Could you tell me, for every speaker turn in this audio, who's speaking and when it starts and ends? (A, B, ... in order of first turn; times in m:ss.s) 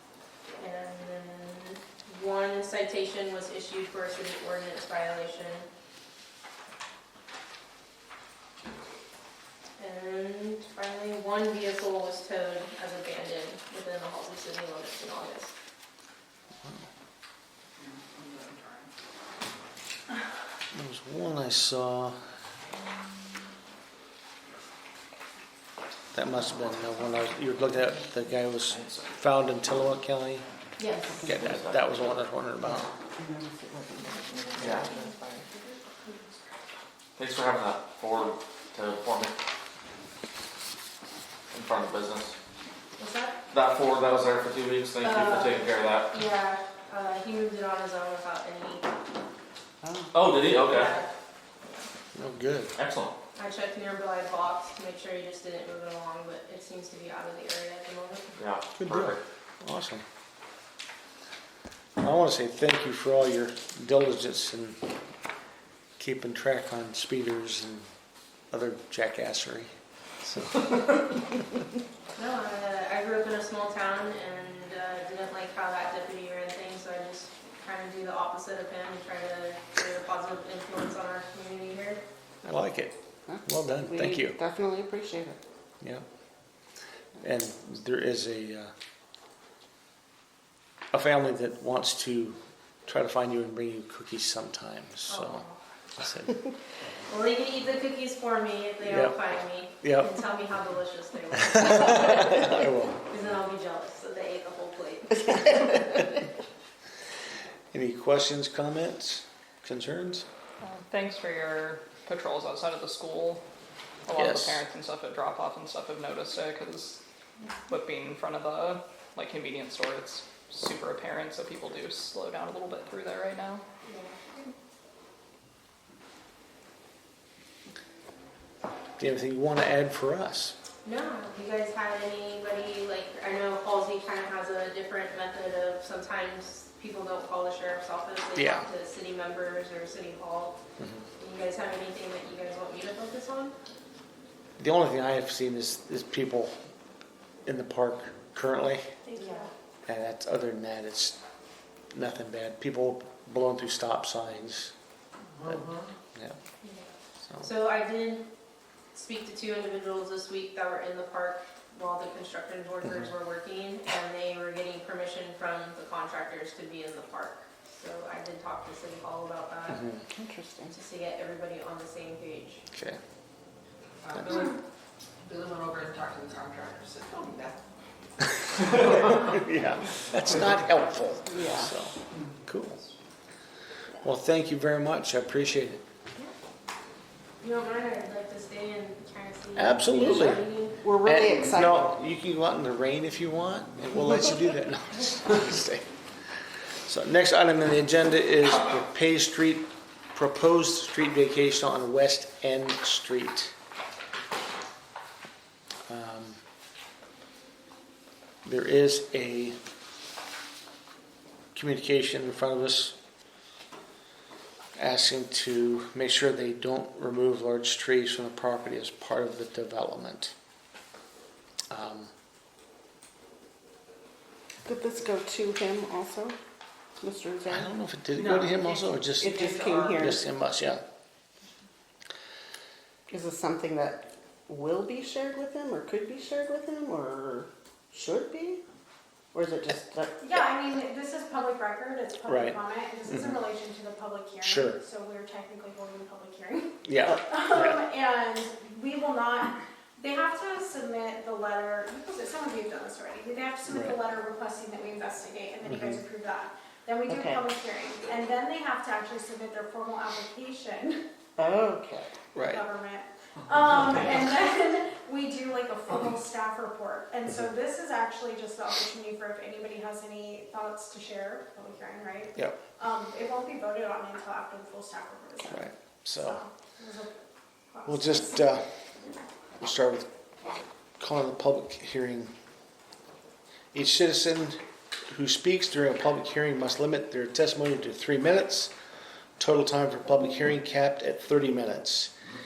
0:00.6-0:05.7 A
0:09.8-0:15.5 A
0:17.8-0:18.9 B
0:20.7-0:22.2 C
0:26.1-0:30.4 C
0:28.7-0:29.1 D
0:30.8-0:31.2 A
0:31.0-0:31.4 E
0:31.2-0:32.2 D
0:31.2-0:32.9 C
0:32.8-0:35.1 E
0:34.5-0:35.3 B
0:34.6-0:34.9 D
0:37.2-0:39.3 D
0:41.5-0:42.3 D
0:43.0-0:43.4 A
0:43.5-0:46.1 D
0:45.0-0:48.9 A
0:49.8-0:50.1 E
0:50.1-0:50.9 D
0:50.6-0:51.1 A
0:51.6-0:51.9 A
0:52.1-0:52.7 C
0:52.8-0:53.1 D
0:53.4-0:58.3 A
0:58.4-0:59.2 D
0:58.8-1:00.0 C
1:02.0-1:04.8 C
1:06.0-1:07.8 C
1:08.5-1:09.7 C
1:10.2-1:10.7 C
1:12.2-1:22.0 A
1:22.4-1:22.9 C
1:23.3-1:25.4 E
1:23.4-1:24.4 C
1:27.2-1:28.7 C
1:30.9-1:35.4 C
1:35.1-1:35.6 A
1:36.0-1:36.4 C
1:37.1-1:45.8 A
1:38.8-1:39.2 C
1:39.8-1:40.1 C
1:41.6-1:43.0 C
1:47.7-1:50.2 C
1:50.6-1:53.4 F
1:54.1-1:57.0 F
1:54.1-1:54.6 C
1:57.7-2:03.6 F
2:03.8-2:04.4 A
2:09.0-2:10.6 C
2:10.8-2:20.6 A
2:18.3-2:18.6 C
2:20.8-2:21.0 C
2:21.2-2:23.6 A
2:24.6-2:26.5 C
2:27.4-2:28.8 C
2:29.0-2:29.5 G
2:29.1-2:29.5 A
2:29.9-2:31.2 C
2:31.9-2:34.7 C
2:35.4-2:36.4 C
2:36.6-2:36.9 A
2:37.4-2:38.3 A
2:38.9-2:49.9 A
2:49.7-2:50.0 C
2:50.1-2:50.7 E
2:50.7-2:52.6 A
2:52.7-2:53.0 C
2:54.0-2:54.6 B
2:55.2-2:57.6 B
2:58.7-3:02.8 C
2:58.7-2:59.0 B
3:01.3-3:01.7 E
3:04.0-3:05.8 C
3:07.4-3:10.8 A
3:09.6-3:10.4 C
3:10.8-3:11.9 E
3:11.0-3:15.9 C
3:16.8-3:23.5 C
3:25.9-3:26.4 C
3:28.4-3:29.6 C
3:31.5-3:32.9 C
3:34.8-3:40.3 C
3:41.7-3:42.1 C
3:44.6-3:46.4 E
3:47.0-3:47.7 E
3:47.5-3:50.8 C
3:48.2-3:50.0 B
3:49.2-3:50.2 E
3:53.1-3:58.6 E
3:59.3-4:00.2 E
4:00.2-4:21.0 G
4:02.2-4:03.4 C
4:04.4-4:04.8 C
4:06.8-4:07.8 C
4:13.7-4:14.0 C
4:17.1-4:17.4 E
4:21.4-4:22.3 E
4:22.3-4:22.6 C
4:22.4-4:35.6 G
4:35.4-4:36.4 C
4:36.2-4:37.1 G
4:37.7-4:38.3 G
4:37.8-4:38.7 C
4:39.6-4:40.1 C
4:41.0-4:42.3 C
4:43.7-4:48.7 C
4:49.4-4:52.1 C